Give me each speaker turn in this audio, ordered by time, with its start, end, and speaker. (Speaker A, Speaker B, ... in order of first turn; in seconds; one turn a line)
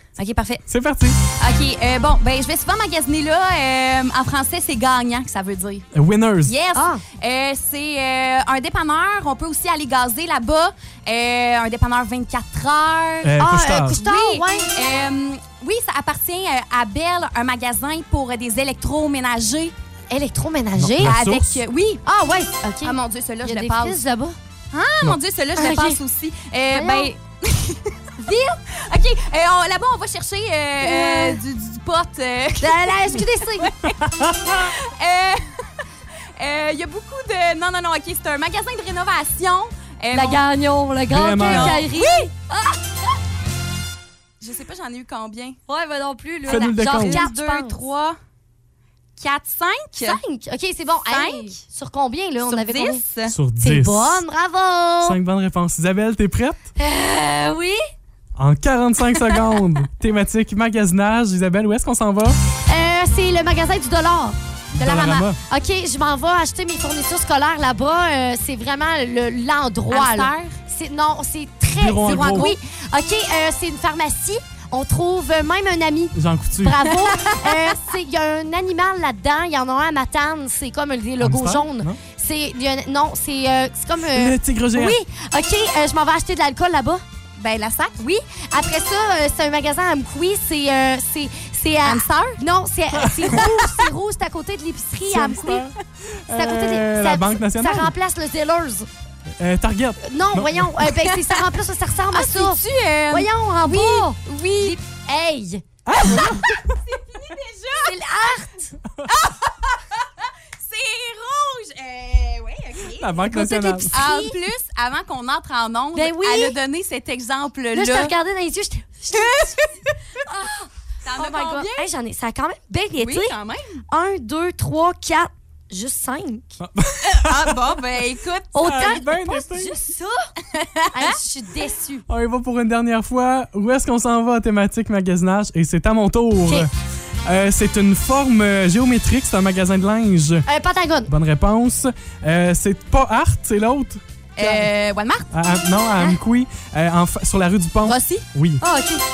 Speaker A: 0.2-0.6
Speaker B: 0.7-1.2
Speaker A: 1.4-5.8
Speaker B: 5.9-6.5
Speaker A: 6.5-19.7
Speaker C: 6.7-7.0
Speaker B: 13.2-14.0
Speaker C: 13.4-14.7
Speaker C: 20.1-21.4
Speaker B: 20.8-21.6
Speaker A: 21.0-22.0
Speaker C: 22.0-24.4
Speaker A: 22.8-24.0
Speaker A: 24.7-27.9
Speaker C: 25.6-26.0
Speaker C: 26.7-27.1
Speaker C: 28.2-28.6
Speaker A: 28.7-34.0
Speaker C: 30.8-31.4
Speaker C: 32.6-33.7
Speaker B: 34.1-34.6
Speaker A: 34.5-35.4
Speaker A: 36.4-40.4
Speaker C: 40.1-42.7
Speaker B: 41.1-41.9
Speaker A: 41.4-42.3
Speaker A: 44.4-45.6
Speaker C: 45.7-47.8
Speaker B: 46.5-47.2
Speaker A: 46.5-48.2
Speaker A: 49.2-50.2
Speaker C: 50.0-53.0
Speaker A: 51.1-51.6
Speaker A: 52.4-53.3
Speaker B: 53.2-54.2
Speaker C: 53.6-55.2
Speaker B: 55.0-56.7
Speaker C: 56.8-57.8
Speaker B: 58.4-62.4
Speaker C: 62.7-87.0
Speaker B: 64.8-65.4
Speaker A: 69.9-70.6
Speaker B: 71.8-72.5
Speaker A: 72.1-72.5
Speaker B: 76.1-76.8
Speaker A: 77.0-77.7
Speaker B: 81.2-82.0
Speaker B: 84.0-85.0
Speaker A: 87.4-88.0
Speaker C: 88.0-95.7
Speaker A: 91.8-92.4
Speaker B: 93.0-93.7
Speaker B: 95.1-97.9
Speaker C: 96.3-98.9
Speaker B: 99.4-100.7
Speaker C: 100.0-105.6
Speaker A: 100.9-101.3
Speaker A: 102.1-104.8
Speaker B: 105.8-106.6
Speaker A: 106.6-107.9
Speaker C: 107.8-108.7
Speaker A: 109.1-110.0
Speaker A: 110.6-113.2
Speaker B: 113.0-113.9
Speaker C: 113.2-114.3
Speaker A: 113.9-118.1
Speaker C: 115.9-116.6
Speaker C: 117.7-119.5
Speaker A: 119.1-119.8
Speaker C: 120.2-123.3
Speaker A: 121.0-121.9
Speaker A: 123.0-123.8
Speaker C: 123.9-126.6
Speaker B: 126.6-127.8
Speaker A: 127.1-128.5
Speaker C: 128.5-130.2
Speaker B: 128.6-129.7
Speaker A: 130.5-131.2
Speaker C: 130.9-132.1
Speaker B: 132.1-136.7
Speaker B: 137.2-140.5
Speaker C: 140.4-141.1
Speaker B: 141.1-144.0
Speaker A: 144.3-145.3
Speaker C: 144.4-144.7
Speaker B: 145.3-148.6
Speaker A: 147.8-148.2
Speaker C: 148.6-149.0